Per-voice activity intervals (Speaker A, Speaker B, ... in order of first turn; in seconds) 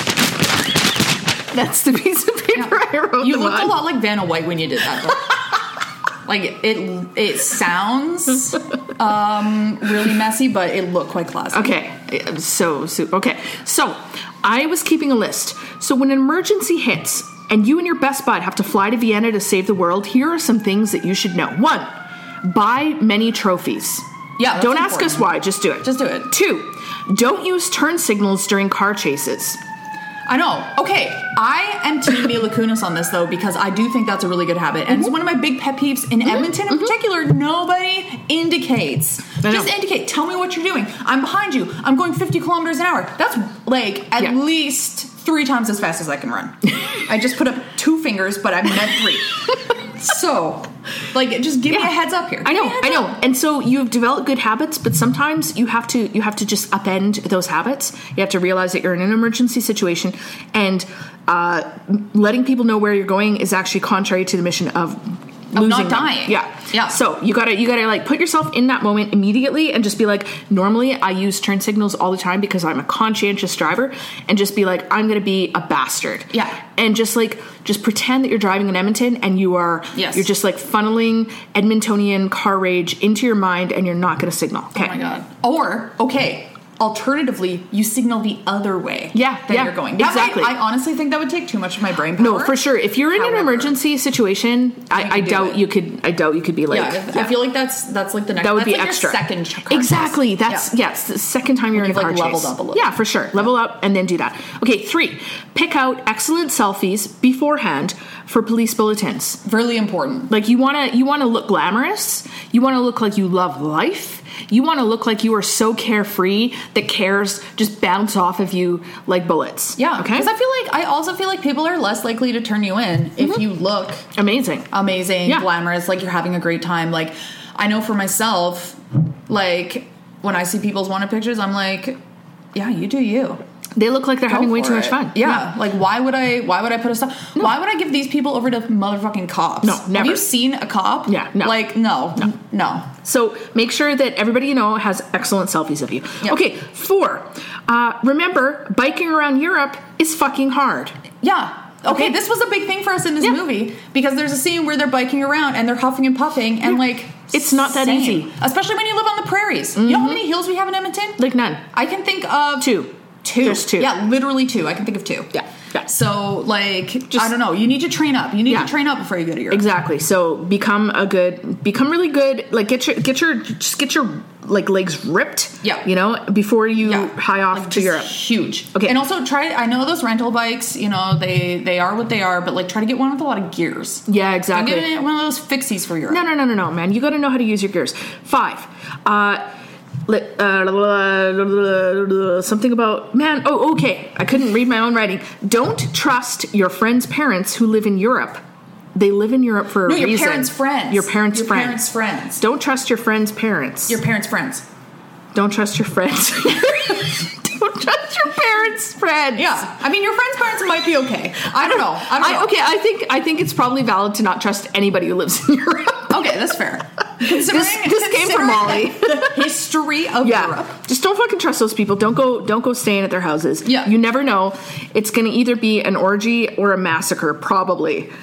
Speaker A: 1.5-3.8, 11.5-21.9, 22.4-29.6, 36.2-36.9, 39.4-39.7, 52.4-85.0, 89.1-90.5, 92.2-97.3, 98.4-109.4, 110.3-120.3, 124.1-124.7, 133.8-135.5, 139.6-140.3, 141.1-142.3, 143.0-151.0, 157.3-158.3, 159.8-160.2, 161.2-161.6, 162.6-163.9, 165.3-165.9, 169.5-178.1, 184.1-184.9, 186.1-189.4, 190.1-198.4, 198.9-201.8, 202.4-204.0, 205.3-209.7, 211.6-216.3, 217.2-219.5, 220.2-228.1
Speaker B: 2.5-5.4, 6.2-11.7, 24.4-26.3, 30.3-53.1, 65.5-67.0, 76.3-76.6, 79.9-80.3, 84.7-93.8, 94.9-95.6, 96.7-100.7, 101.7-103.5, 109.4-110.3, 119.8-124.1, 124.7-132.0, 132.5-133.4, 134.3-142.9, 151.2-161.2, 161.7-165.3, 165.8-169.6, 176.8-186.2, 199.8-202.4, 203.9-204.6, 209.3-212.5, 216.1-220.8, 223.6-223.9